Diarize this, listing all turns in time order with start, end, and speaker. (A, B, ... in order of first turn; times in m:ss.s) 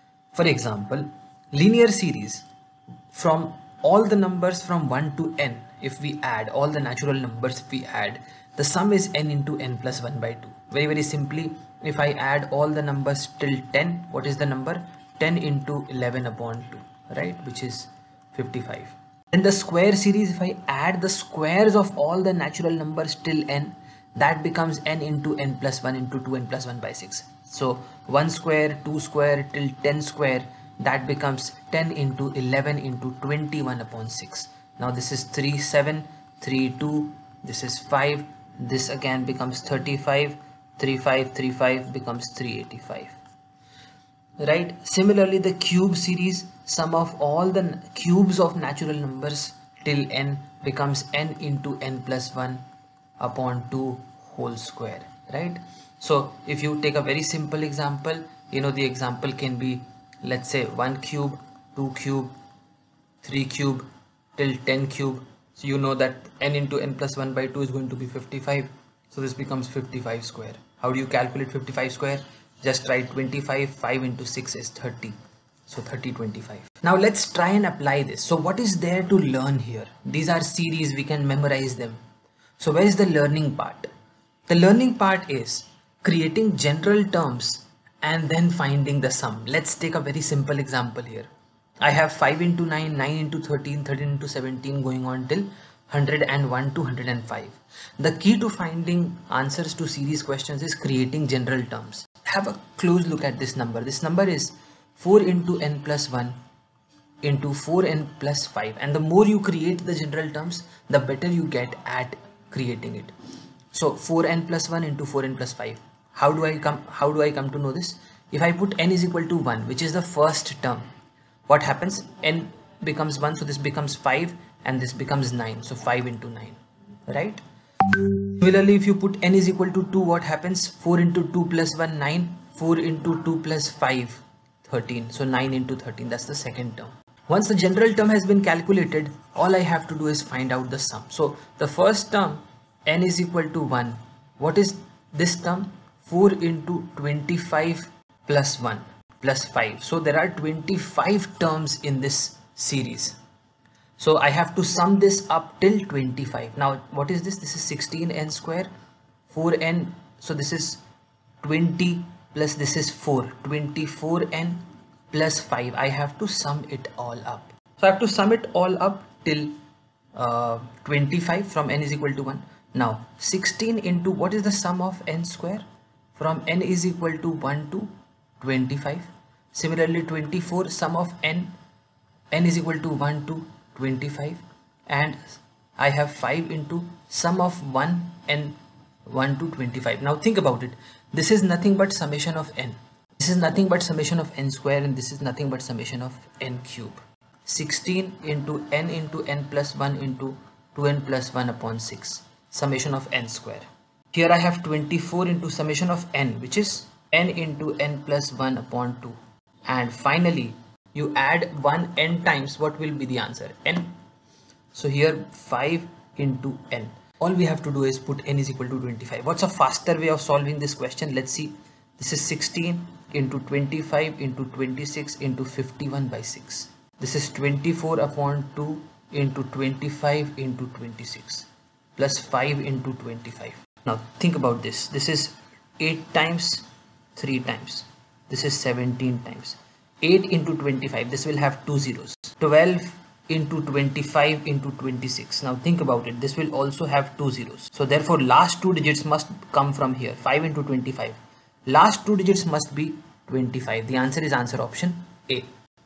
0:00.3-0:02.5 A
0:03.1-0:43.2 A
0:44.4-0:52.6 A
0:53.2-1:02.3 A
1:03.2-1:03.9 A
1:04.4-1:15.2 A
1:15.7-1:22.0 A
1:22.6-1:23.9 A
1:24.5-1:31.3 A
1:31.8-1:46.4 A
1:47.2-1:53.1 A
1:53.7-2:00.8 A
2:01.5-2:06.6 A
2:07.1-2:07.4 A
2:07.9-2:33.2 A
2:34.0-2:38.7 A
2:39.3-2:40.8 A
2:41.4-2:49.5 A
2:50.2-2:55.6 A
2:56.2-3:01.5 A
3:02.3-3:33.9 A
3:34.7-4:11.2 A
4:11.7-4:15.5 A